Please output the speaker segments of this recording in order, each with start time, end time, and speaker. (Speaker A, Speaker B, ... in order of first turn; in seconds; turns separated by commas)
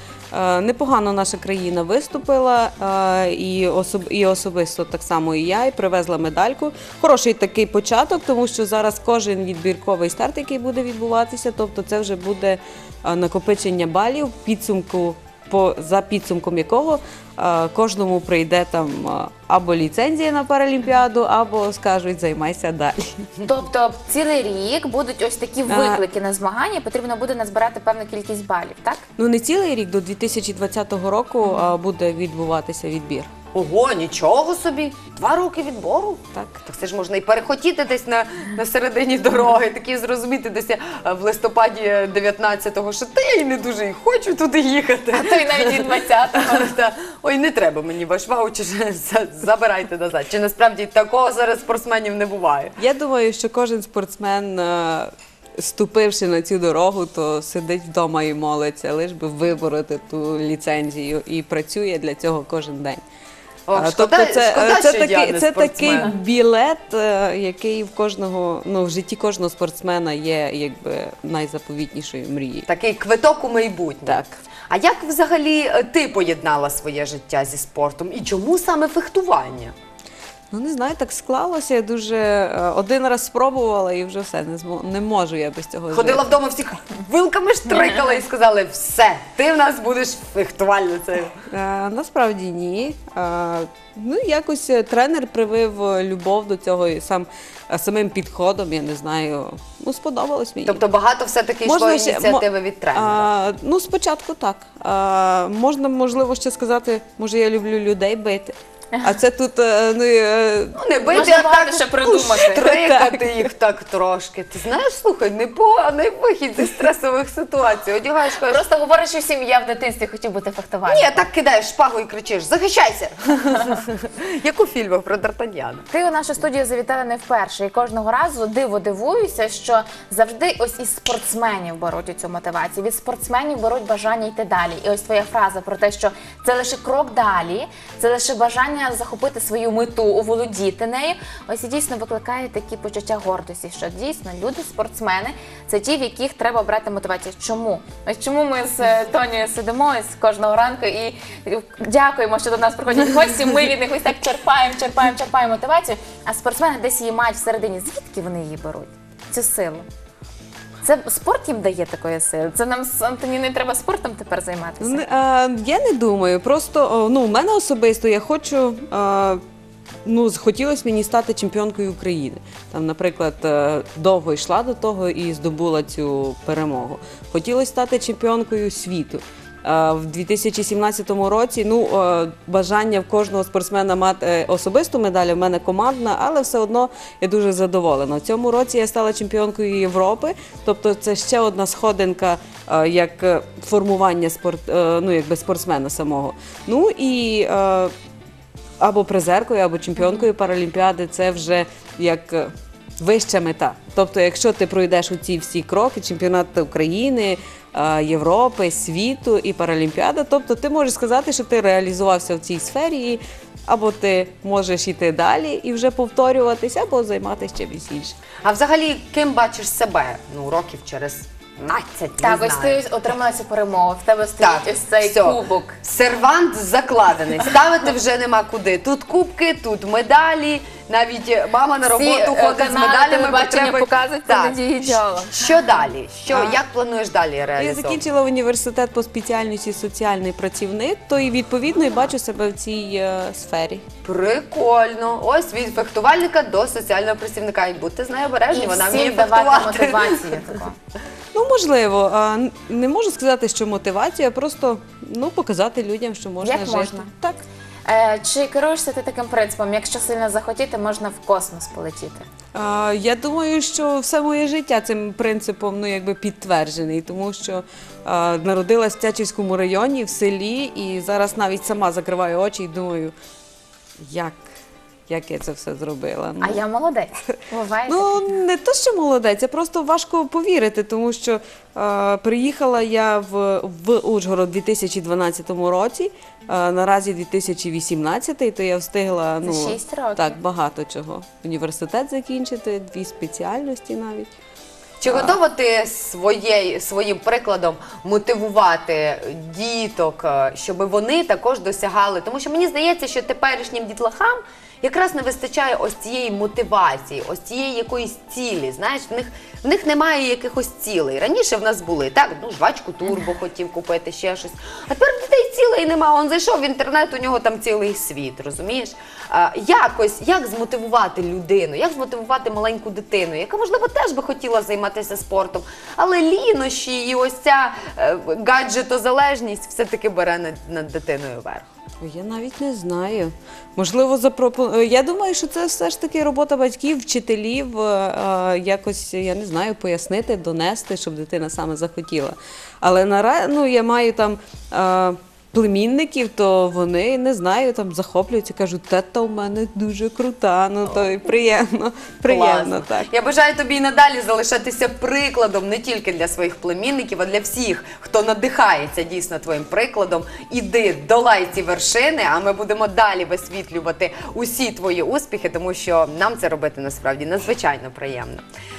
Speaker A: 0.3-23.3, Speaker B: 23.4-29.0, Speaker A: 25.7-26.0, Speaker A: 29.2-33.3, Speaker C: 33.5-52.7, Speaker A: 36.3-36.6, Speaker B: 45.1-46.8, Speaker A: 52.8-63.0, Speaker C: 63.7-66.1, Speaker A: 63.8-72.7, Speaker C: 72.7-79.7, Speaker A: 74.1-74.4, Speaker A: 80.5-86.3, Speaker C: 85.9-91.3, Speaker A: 91.5-100.8, Speaker C: 100.7-103.3, Speaker A: 101.7-110.8, Speaker C: 110.8-118.6, Speaker B: 111.1-112.7, Speaker A: 112.5-113.3, Speaker B: 118.5-121.3, Speaker C: 120.9-125.9, Speaker B: 125.9-159.8, Speaker B: 160.8-165.0, Speaker A: 164.8-169.4, Speaker A: 170.1-197.9, Speaker A: 198.8-218.2, Speaker C: 218.4-222.8, Speaker B: 222.2-225.8, Speaker C: 224.4-238.0, Speaker B: 231.9-235.4, Speaker A: 236.3-236.6, Speaker A: 237.6-243.8, Speaker C: 244.0-250.4, Speaker B: 248.5-250.8, Speaker A: 251.3-257.4, Speaker B: 256.4-257.1, Speaker B: 257.9-262.2, Speaker A: 262.6-273.1, Speaker A: 274.0-274.5, Speaker A: 275.1-276.6, Speaker B: 276.4-278.3, Speaker A: 277.9-294.3, Speaker B: 289.4-290.4, Speaker C: 295.0-331.7, Speaker A: 295.1-295.4, Speaker A: 332.0-353.1, Speaker C: 352.3-368.4